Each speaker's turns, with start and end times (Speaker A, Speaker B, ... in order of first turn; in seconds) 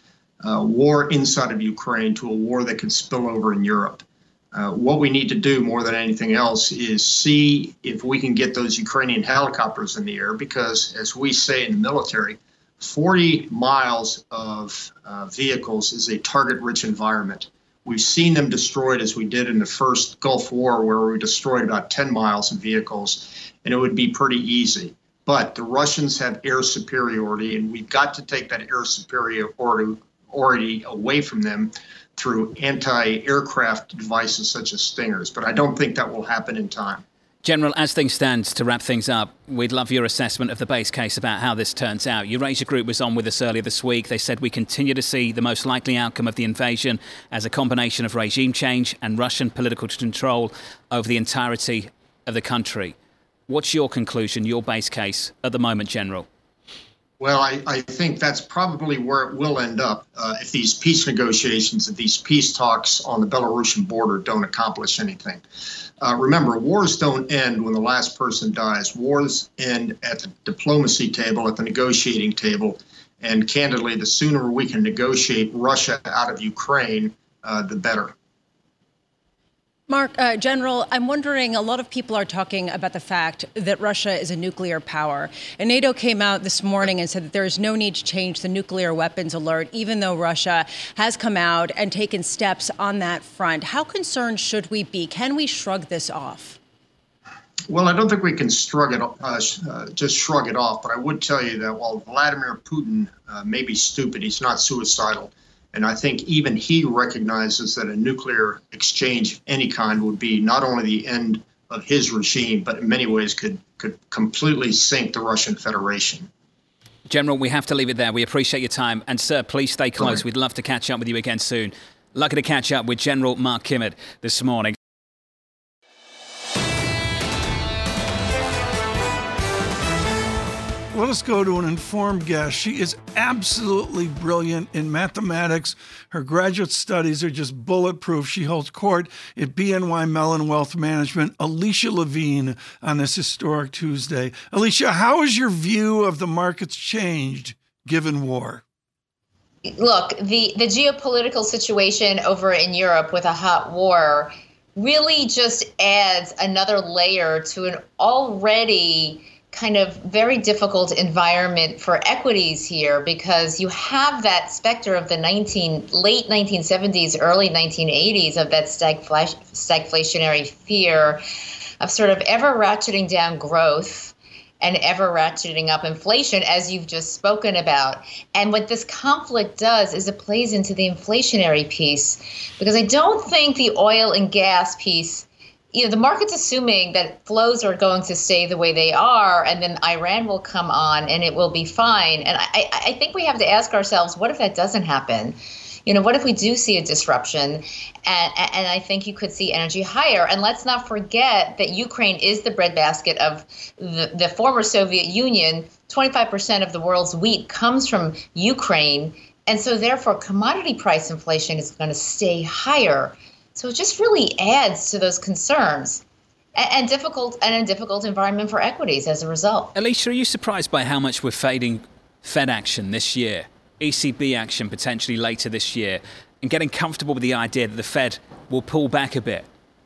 Speaker A: 0.4-37.0, 57.2-65.4, 66.0-78.1, 97.7-116.3
Speaker B: 37.4-52.9, 53.5-56.2, 117.1-124.8, 219.8-229.4
Speaker C: 79.9-96.6
Speaker D: 130.9-148.6
Speaker E: 149.6-171.2, 171.8-216.0, 216.5-219.7